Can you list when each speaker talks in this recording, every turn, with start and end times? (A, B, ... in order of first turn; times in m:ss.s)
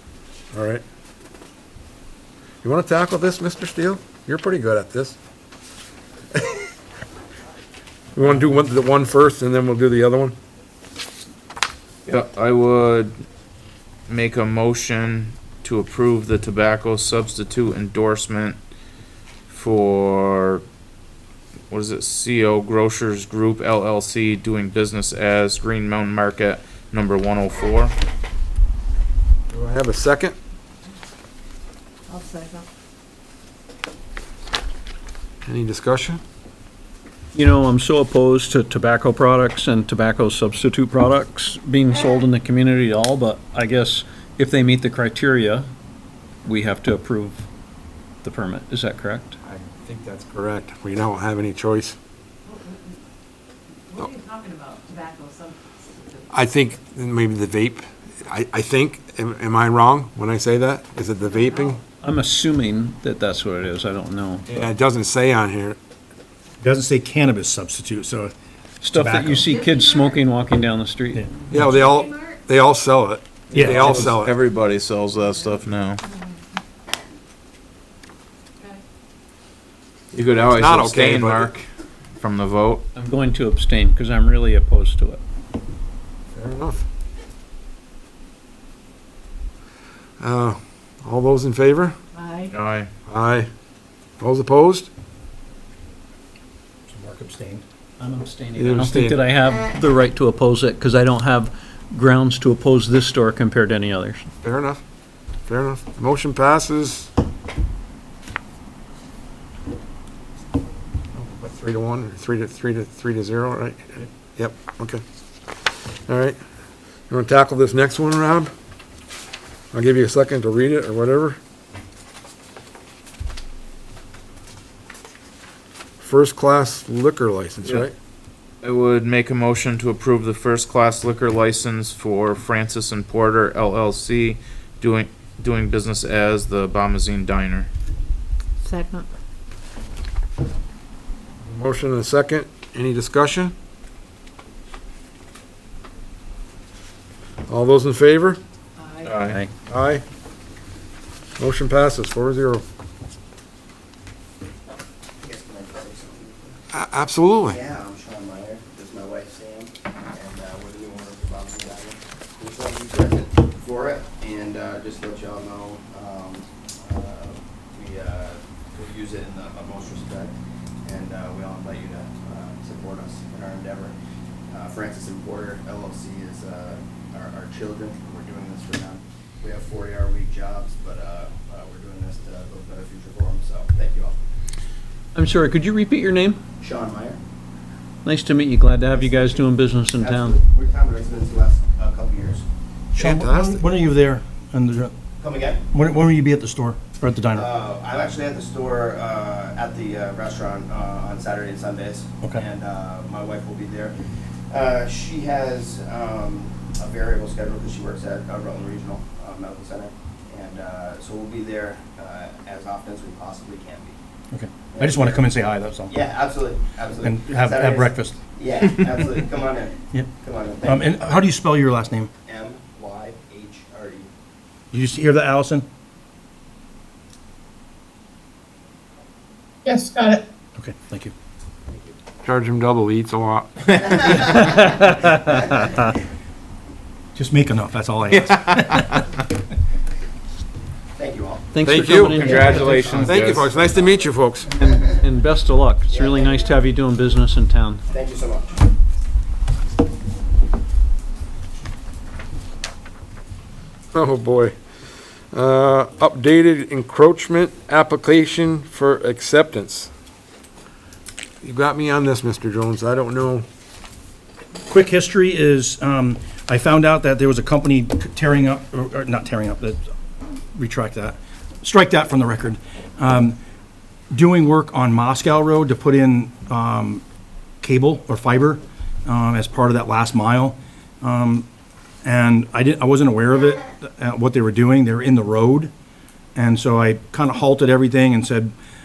0:00.5-0:00.8 A
0:02.6-0:05.2 A
0:06.3-0:06.7 A
0:08.1-0:10.4 A
0:12.0-0:13.1 B
0:14.1-0:18.6 B
0:19.5-0:20.6 B
0:21.7-0:27.9 B
0:29.5-0:30.4 A
0:32.1-0:32.6 C
0:35.4-0:36.2 A
0:37.3-0:45.7 D
0:46.4-0:47.4 D
0:48.2-0:49.4 D
0:49.4-0:52.0 A
0:52.5-0:52.9 C
0:53.9-0:56.2 C
0:56.3-1:01.8 A
1:02.0-1:04.6 D
1:04.4-1:05.8 A
1:06.6-1:08.3 E
1:08.8-1:11.2 D
1:08.9-1:09.6 E
1:09.5-1:10.0 C
1:11.1-1:11.9 E
1:11.5-1:14.3 A
1:13.5-1:14.1 E
1:13.5-1:16.0 B
1:20.1-1:21.6 B
1:20.5-1:21.6 A
1:22.2-1:22.8 B
1:22.9-1:25.2 D
1:26.3-1:26.8 A
1:30.2-1:32.0 A
1:32.2-1:32.5 C
1:32.5-1:32.9 B
1:33.0-1:33.5 A
1:34.2-1:34.9 A
1:36.9-1:37.6 E
1:38.0-1:44.3 D
1:38.6-1:39.2 A
1:44.4-1:44.8 A
1:45.4-1:47.1 A
1:51.1-1:56.4 A
1:57.1-1:58.5 A
1:59.7-2:01.4 A
2:06.0-2:07.9 A
2:08.6-2:17.7 B
2:21.4-2:23.5 A
2:27.5-2:28.4 A
2:28.8-2:29.1 C
2:29.0-2:29.4 B
2:29.2-2:29.5 D
2:29.7-2:30.0 A
2:31.4-2:32.6 A
2:35.2-2:36.6 F
2:36.7-2:37.6 A
2:37.4-2:53.9 F
2:54.5-3:04.2 F
3:05.1-3:06.4 D
3:06.6-3:07.2 F
3:08.0-3:10.4 D
3:08.9-3:12.4 F
3:12.9-3:13.7 A
3:13.0-3:14.9 E
3:15.2-3:15.6 F
3:15.7-3:17.5 E
3:17.3-3:34.0 F
3:34.3-3:36.0 E
3:34.7-3:35.3 F
3:35.9-3:40.9 F
3:37.0-3:38.2 E
3:40.6-3:42.1 E
3:42.2-3:44.1 F
3:44.7-3:45.6 E
3:49.7-3:51.1 E
3:52.2-3:53.8 A
3:53.8-3:54.8 F
3:57.1-3:59.0 E
3:58.2-3:59.0 B
4:01.0-4:01.5 F
4:01.5-4:03.1 D
4:01.6-4:02.3 A
4:02.1-4:03.5 B
4:02.2-4:05.0 F
4:02.9-4:04.5 A
4:04.5-4:07.8 D
4:05.9-4:06.6 F
4:07.9-4:08.6 F
4:13.9-4:14.6 A
4:15.3-4:19.9 A
4:21.4-4:23.4 A
4:24.6-4:29.8 E
4:30.5-4:33.4 E
4:34.1-4:37.0 E
4:37.6-4:41.5 E
4:42.0-4:45.7 E
4:46.3-4:48.5 E